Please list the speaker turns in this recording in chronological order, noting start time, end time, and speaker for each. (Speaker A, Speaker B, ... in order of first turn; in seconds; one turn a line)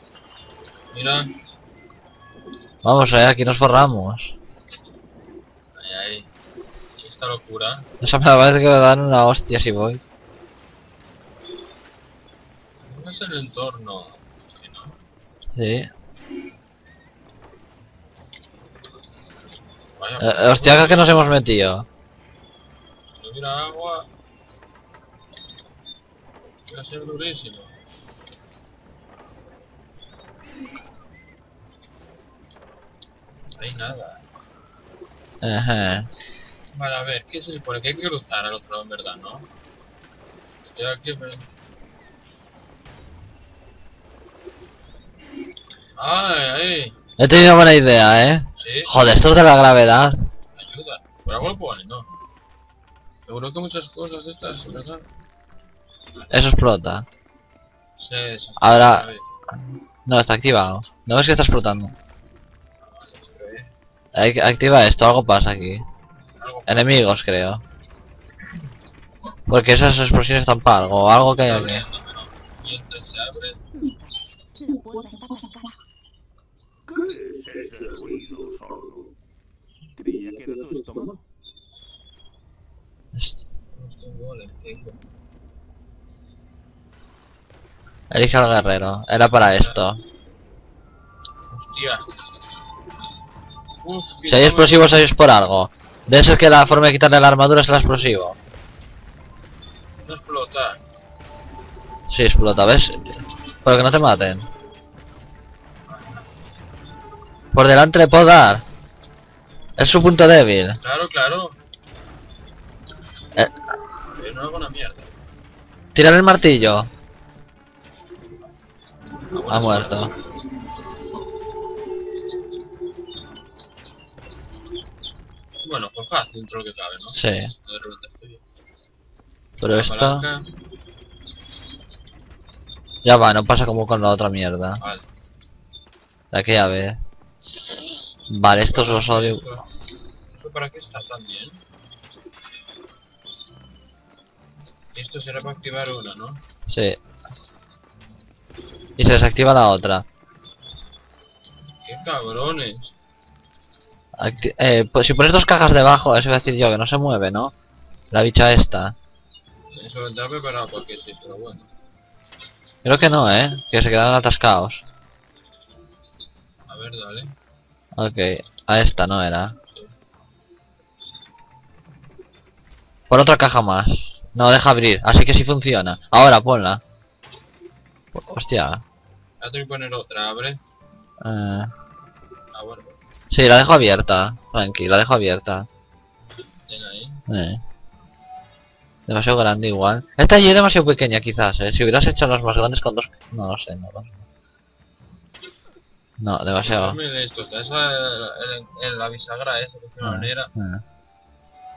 Speaker A: 0.9-1.3
Speaker B: 2.8-4.3
Speaker A: 5.8-6.3
Speaker A: 7.0-7.9
Speaker B: 8.0-10.0
Speaker A: 12.8-15.0
Speaker B: 15.6-15.9
Speaker A: 20.0-21.3
Speaker B: 20.2-21.9
Speaker A: 23.2-24.1
Speaker A: 26.7-27.7
Speaker A: 33.6-34.2
Speaker B: 35.4-36.1
Speaker A: 36.7-39.5
Speaker A: 40.6-41.5
Speaker A: 46.0-47.0
Speaker B: 47.2-50.3
Speaker A: 48.6-49.0
Speaker A: 50.5-52.1
Speaker A: 53.3-55.1
Speaker B: 56.3-57.1
Speaker A: 58.0-59.2
Speaker B: 58.6-59.1
Speaker B: 60.1-61.9
Speaker A: 62.8-63.7
Speaker B: 64.1-65.9
Speaker A: 66.4-67.0
Speaker B: 66.7-67.6
Speaker B: 69.5-71.8
Speaker A: 71.4-73.6
Speaker C: 73.8-75.8
Speaker C: 76.9-79.1
Speaker C: 80.0-81.2
Speaker A: 83.7-85.0
Speaker B: 88.1-90.0
Speaker A: 89.5-89.8
Speaker A: 91.5-92.1
Speaker A: 93.8-95.1
Speaker B: 94.3-98.4
Speaker A: 100.0-100.8
Speaker B: 102.1-104.5
Speaker A: 105.9-106.2
Speaker B: 107.5-108.6
Speaker B: 109.8-110.8
Speaker A: 110.8-111.6
Speaker A: 114.2-115.1
Speaker B: 116.0-116.9
Speaker A: 119.3-120.1
Speaker B: 119.5-120.1
Speaker A: 125.6-128.4
Speaker B: 127.2-127.5
Speaker B: 129.6-130.3
Speaker A: 129.6-130.5
Speaker B: 133.0-134.8
Speaker A: 134.8-135.1
Speaker B: 136.3-137.0
Speaker B: 138.3-139.4
Speaker A: 138.7-139.7
Speaker A: 140.3-141.6
Speaker A: 144.9-146.4
Speaker B: 146.7-147.0
Speaker B: 149.0-150.1
Speaker A: 151.8-152.9
Speaker B: 154.2-157.5
Speaker B: 158.1-159.0
Speaker A: 159.7-161.7
Speaker B: 162.8-164.8
Speaker A: 166.7-167.3
Speaker B: 167.9-169.6
Speaker B: 173.1-176.8
Speaker B: 178.1-178.8
Speaker A: 179.4-180.6
Speaker B: 181.2-181.7
Speaker A: 182.5-183.0
Speaker B: 183.3-185.7
Speaker A: 186.7-187.2
Speaker B: 187.3-187.6
Speaker B: 189.1-194.3
Speaker B: 196.2-197.0
Speaker A: 196.6-200.5
Speaker B: 200.0-200.8